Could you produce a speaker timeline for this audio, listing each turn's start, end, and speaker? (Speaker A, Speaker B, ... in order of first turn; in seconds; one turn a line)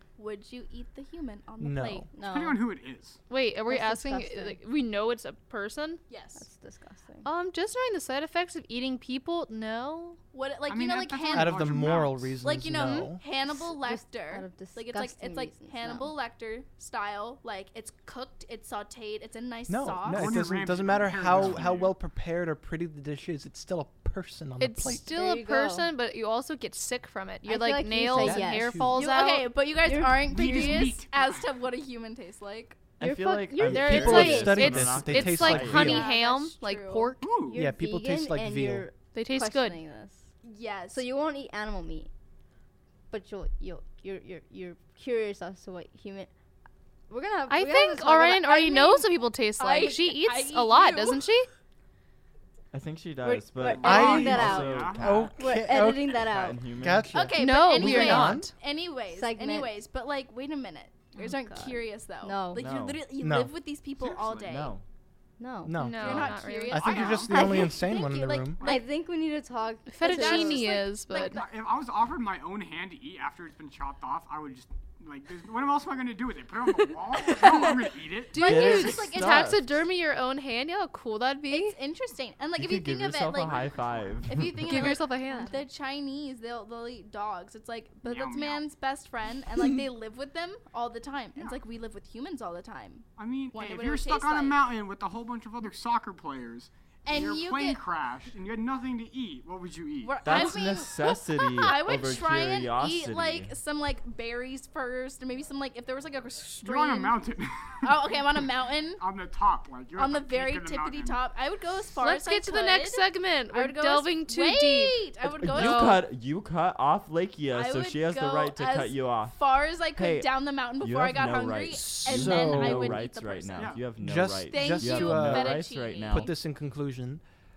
Speaker A: 0.2-2.1
Speaker B: 1.6-2.1
Speaker C: 2.1-2.6
Speaker D: 2.2-3.2
Speaker E: 3.3-6.0
Speaker C: 3.7-4.6
Speaker A: 6.1-6.5
Speaker C: 6.4-7.3
Speaker E: 7.2-10.2
Speaker A: 10.3-11.7
Speaker D: 10.7-12.4
Speaker B: 11.3-13.2
Speaker A: 12.4-20.5
Speaker E: 12.8-13.1
Speaker C: 13.4-16.1
Speaker B: 19.7-25.1
Speaker D: 20.1-22.0
Speaker E: 24.6-29.5
Speaker C: 25.1-25.9
Speaker C: 27.4-29.0
Speaker B: 28.1-29.0
Speaker A: 28.9-32.9
Speaker C: 29.8-30.9
Speaker D: 30.2-31.5
Speaker C: 33.0-34.7
Speaker F: 33.0-36.0
Speaker B: 33.6-36.0
Speaker E: 33.7-37.3
Speaker A: 35.5-37.1
Speaker D: 37.2-37.6
Speaker C: 37.4-40.3
Speaker B: 37.5-38.9
Speaker E: 39.1-39.8
Speaker A: 40.4-41.1
Speaker C: 40.9-42.1
Speaker C: 43.1-46.3
Speaker C: 47.1-49.0
Speaker E: 47.5-51.5
Speaker A: 49.6-51.2
Speaker F: 52.7-57.1
Speaker C: 53.2-56.6
Speaker D: 53.6-55.3
Speaker B: 53.8-58.5
Speaker A: 57.1-64.7
Speaker E: 57.4-58.5
Speaker C: 59.1-59.8
Speaker C: 61.2-62.6
Speaker F: 62.5-63.0
Speaker B: 63.2-63.5
Speaker D: 64.0-64.4
Speaker F: 64.4-64.8
Speaker C: 65.4-65.9
Speaker B: 65.6-68.6
Speaker E: 65.8-66.9
Speaker A: 66.0-68.8
Speaker D: 66.1-67.6
Speaker C: 67.3-67.8
Speaker C: 68.6-70.7
Speaker E: 69.9-71.4
Speaker A: 70.0-71.5
Speaker D: 71.2-78.5
Speaker A: 77.4-77.7
Speaker E: 78.3-81.8
Speaker A: 78.3-79.5
Speaker F: 78.3-79.7
Speaker A: 81.5-94.6
Speaker F: 82.5-84.7
Speaker D: 83.5-84.2
Speaker E: 84.6-85.5
Speaker C: 85.3-85.5
Speaker D: 88.0-88.7
Speaker D: 93.2-100.4
Speaker A: 97.0-97.8
Speaker A: 100.0-107.2
Speaker F: 100.2-103.5
Speaker D: 106.6-111.2
Speaker A: 107.8-109.0
Speaker A: 110.0-116.0
Speaker E: 112.0-116.0
Speaker F: 115.4-119.4
Speaker A: 117.5-123.9
Speaker F: 119.9-126.3
Speaker B: 121.8-123.0
Speaker D: 123.6-124.0
Speaker B: 124.0-127.2
Speaker A: 124.5-126.3